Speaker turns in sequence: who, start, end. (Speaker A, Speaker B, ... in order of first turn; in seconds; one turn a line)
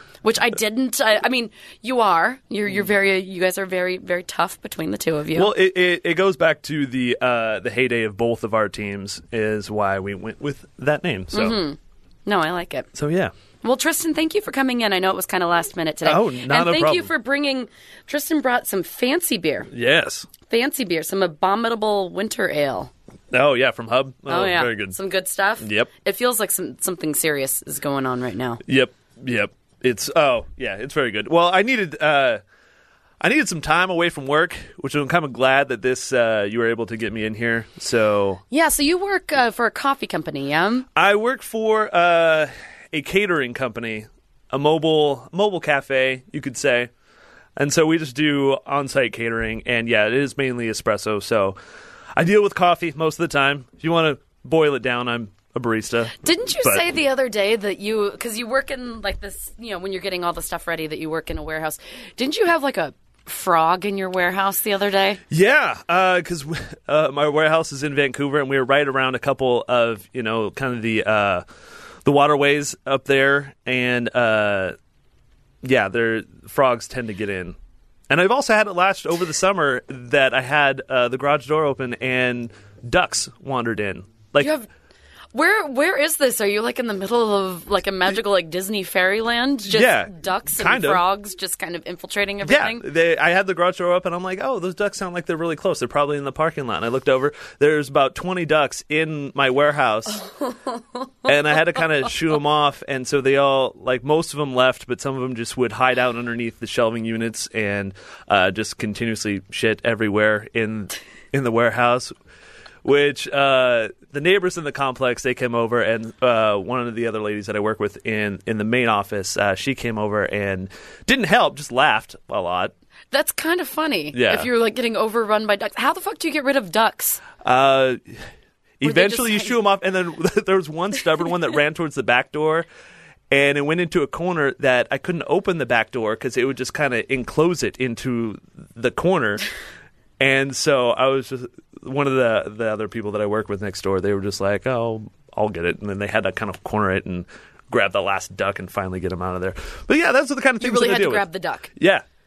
Speaker A: 0.2-5.5
Speaker B: 5.3-11.6
Speaker A: 11.3-12.9
Speaker B: 12.9-13.3
Speaker A: 13.6-19.7
Speaker B: 16.0-17.1
Speaker B: 19.7-20.3
Speaker A: 20.5-22.9
Speaker B: 23.3-24.9
Speaker A: 24.3-28.6
Speaker B: 25.6-25.9
Speaker B: 28.6-32.4
Speaker B: 33.2-38.4
Speaker A: 38.5-40.9
Speaker B: 41.0-46.9
Speaker B: 47.5-51.5
Speaker B: 52.1-56.8
Speaker A: 56.2-65.2
Speaker B: 65.3-71.4
Speaker B: 72.0-74.8
Speaker B: 75.6-77.5
Speaker B: 78.1-84.5
Speaker A: 84.4-84.7
Speaker A: 85.3-92.8
Speaker B: 89.7-91.0
Speaker B: 92.4-100.2
Speaker A: 100.2-100.8
Speaker B: 101.2-112.1
Speaker B: 112.8-122.7
Speaker A: 123.1-127.2
Speaker B: 124.1-124.5
Speaker B: 127.4-128.2
Speaker B: 128.8-132.7
Speaker A: 128.8-129.6
Speaker B: 133.3-139.5
Speaker B: 140.2-152.0
Speaker A: 150.6-151.7